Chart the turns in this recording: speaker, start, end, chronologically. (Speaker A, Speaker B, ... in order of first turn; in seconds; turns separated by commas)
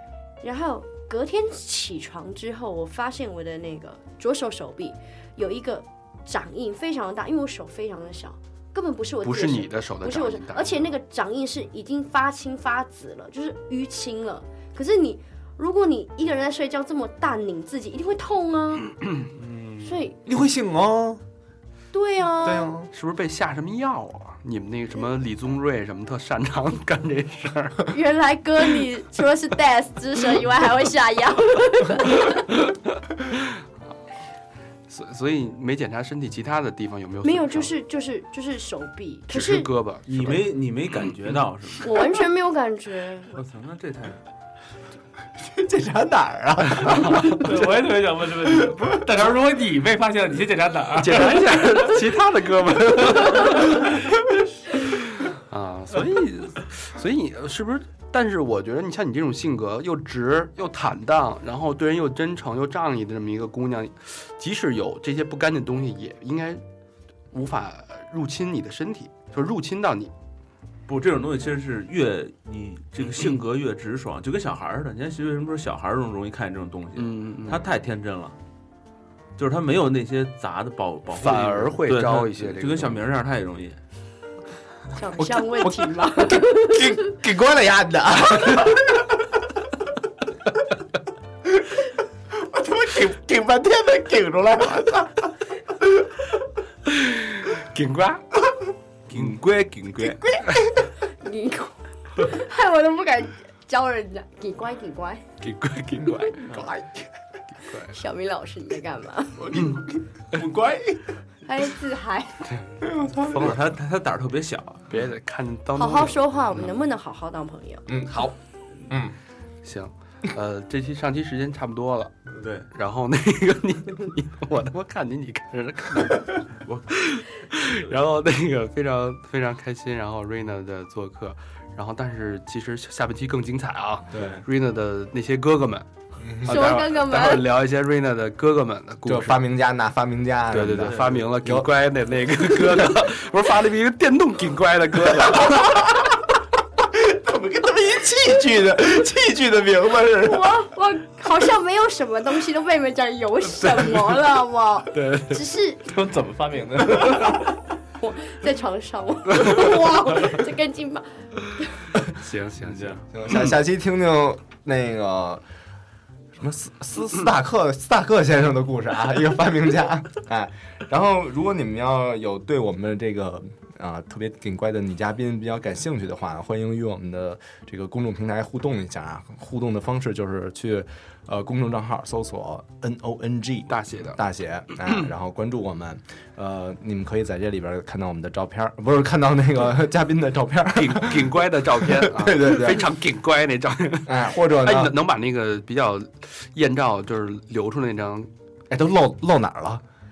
Speaker A: 0.4-19.0, Speaker B: 9.2-10.8, Speaker A: 19.8-20.2, Speaker C: 20.2-21.2, Speaker A: 21.9-22.8, Speaker C: 22.4-22.9, Speaker B: 22.9-27.9, Speaker A: 27.9-32.5, Speaker B: 34.9-37.7, Speaker A: 37.2-39.7, Speaker B: 39.3-40.4, Speaker D: 40.1-42.0, Speaker A: 41.8-43.3, Speaker D: 43.3-44.2, Speaker C: 45.4-47.4, Speaker B: 46.8-47.3, Speaker E: 47.3-51.9, Speaker B: 51.0-53.9, Speaker B: 54.8-66.6, Speaker B: 67.3-70.1, Speaker D: 70.9-78.4, Speaker B: 73.0-73.4, Speaker B: 77.0-77.7, Speaker D: 79.4-83.8, Speaker B: 81.1-83.0, Speaker A: 84.9-87.1, Speaker C: 85.2-89.2, Speaker C: 91.5-91.8, Speaker C: 92.3-95.3, Speaker B: 96.9-98.4, Speaker D: 99.1-100.2, Speaker C: 100.0-100.6, Speaker A: 101.0-105.2, Speaker B: 105.4-106.7, Speaker C: 106.5-107.1, Speaker B: 107.6-107.9, Speaker A: 107.8-109.6, Speaker C: 109.4-111.0, Speaker B: 109.5-109.8, Speaker A: 111.5-112.5, Speaker B: 112.5-113.6, Speaker C: 112.8-113.6, Speaker D: 113.3-114.9, Speaker B: 114.9-116.2, Speaker A: 115.8-117.9, Speaker C: 117.9-118.4, Speaker C: 118.9-119.2, Speaker B: 119.6-122.2, Speaker D: 122.3-122.7, Speaker B: 122.7-139.4, Speaker D: 126.6-127.0, Speaker C: 134.1-134.4, Speaker D: 134.1-134.4, Speaker C: 136.2-136.7, Speaker A: 136.5-137.5, Speaker C: 139.0-141.7, Speaker B: 140.5-146.0, Speaker C: 142.4-143.0, Speaker C: 145.3-146.1, Speaker C: 146.8-150.6, Speaker A: 150.2-155.8, Speaker B: 154.9-155.5, Speaker E: 155.8-157.5, Speaker A: 158.0-161.8, Speaker B: 159.3-159.8, Speaker B: 162.1-163.6, Speaker C: 163.1-165.4, Speaker C: 166.3-192.9, Speaker B: 183.7-184.2, Speaker B: 190.8-198.3, Speaker C: 194.1-195.0, Speaker C: 198.7-199.8